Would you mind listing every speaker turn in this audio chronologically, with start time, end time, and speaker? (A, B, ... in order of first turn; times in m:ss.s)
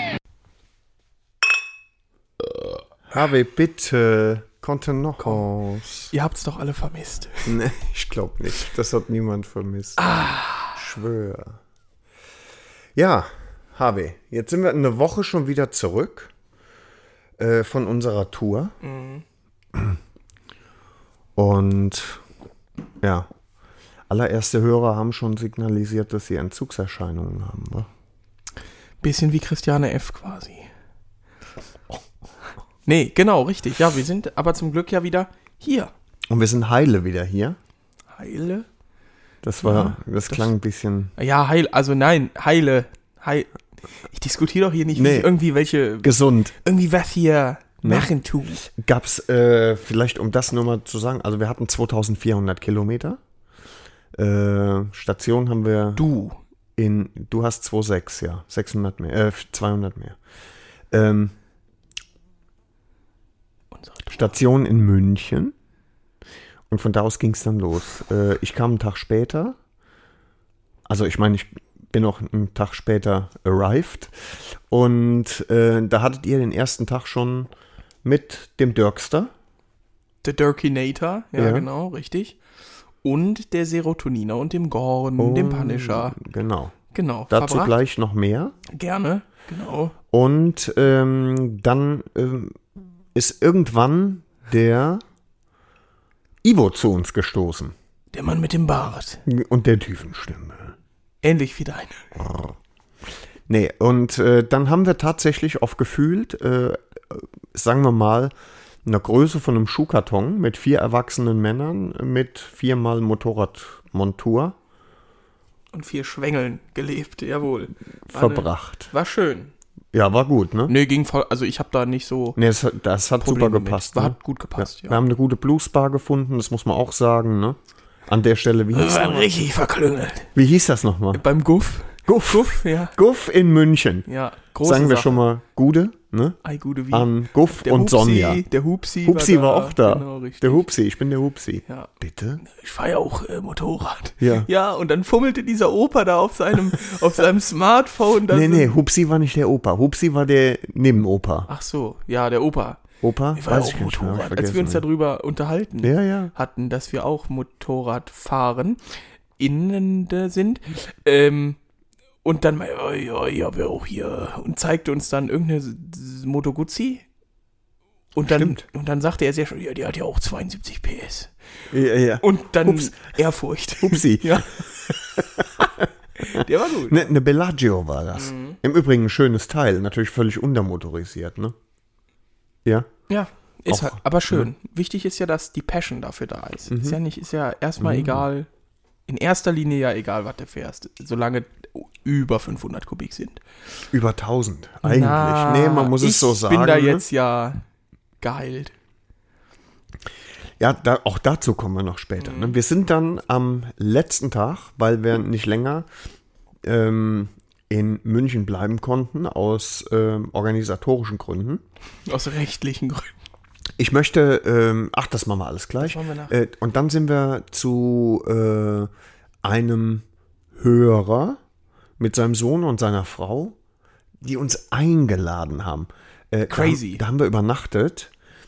0:03.1-0:06.1 A
0:06.1-0:07.5 B
0:07.5-0:10.0 A
0:10.0-0:10.8 B
0:10.8-0:11.6 A
0:13.0-0:16.3 A
0:17.4-0:18.8 A
0:18.8-0:19.2 B
0:21.4-0:22.2 A
0:23.0-0:23.3 A
0:24.1-0:27.9 A
0:29.0-0:30.7 B
0:32.9-0:35.9 B
0:36.3-0:37.6 A
0:38.2-0:38.7 B
0:39.4-0:41.1 A
0:39.6-0:40.5 B
0:41.2-0:43.5 B
0:44.1-0:48.6 B
0:44.9-0:45.3 A
0:46.0-0:46.5 A
0:47.8-0:48.1 A
0:48.6-0:53.2 A
0:54.2-0:56.0 A
0:56.0-0:56.4 B
0:56.8-1:00.2 A
1:00.9-1:01.4 A
1:03.7-1:04.4 B
1:04.1-1:05.6 A
1:06.7-1:09.6 A
1:10.9-1:17.5 A
1:18.0-1:19.3 A
1:20.2-1:22.4 B
1:21.4-1:21.7 A
1:23.0-1:26.2 B
1:25.2-1:26.8 A
1:26.9-1:27.8 B
1:27.3-1:28.6 A
1:28.7-1:29.9 B
1:30.1-1:32.6 A
1:33.2-1:35.0 A
1:36.4-1:37.8 A
1:38.1-1:39.2 B
1:39.3-1:40.8 A
1:41.2-1:42.0 B
1:42.2-1:42.5 A
1:43.5-1:48.3 A
1:48.8-1:54.6 A
1:55.7-1:59.5 B
1:58.1-1:58.9 A
1:59.9-2:00.7 A
2:00.7-2:02.4 B
2:02.4-2:09.3 A
2:03.2-2:05.0 B
2:08.7-2:10.3 B
2:10.4-2:11.2 A
2:11.1-2:13.0 B
2:12.1-2:14.1 A
2:14.1-2:15.2 B
2:14.6-2:16.4 A
2:16.4-2:20.7 B
2:16.9-2:18.4 A
2:19.0-2:22.4 A
2:22.4-2:28.8 B
2:24.2-2:24.5 A
2:28.3-2:31.5 A
2:31.5-2:32.8 B
2:33.0-2:34.8 A
2:33.4-2:38.8 B
2:35.8-2:36.3 A
2:39.4-2:41.6 B
2:42.2-2:47.0 B
2:48.2-2:51.3 B
2:48.2-2:48.6 A
2:51.7-2:53.0 A
2:52.2-2:55.0 B
2:53.8-3:01.6 A
2:56.2-2:57.1 B
2:58.2-2:58.6 B
3:02.6-3:02.9 A
3:03.1-3:08.5 B
3:03.7-3:04.5 A
3:06.7-3:07.0 A
3:07.8-3:08.2 A
3:09.1-3:13.4 B
3:13.9-3:17.0 A
3:14.8-3:17.6 B
3:18.2-3:18.7 B
3:20.6-3:25.9 A
3:22.2-3:22.6 B
3:26.6-3:31.6 A
3:32.1-3:33.1 B
3:33.8-3:38.9 A
3:35.8-3:36.3 B
3:39.4-3:41.4 A
3:42.0-3:43.6 A
3:44.2-3:48.1 A
3:46.5-3:47.0 B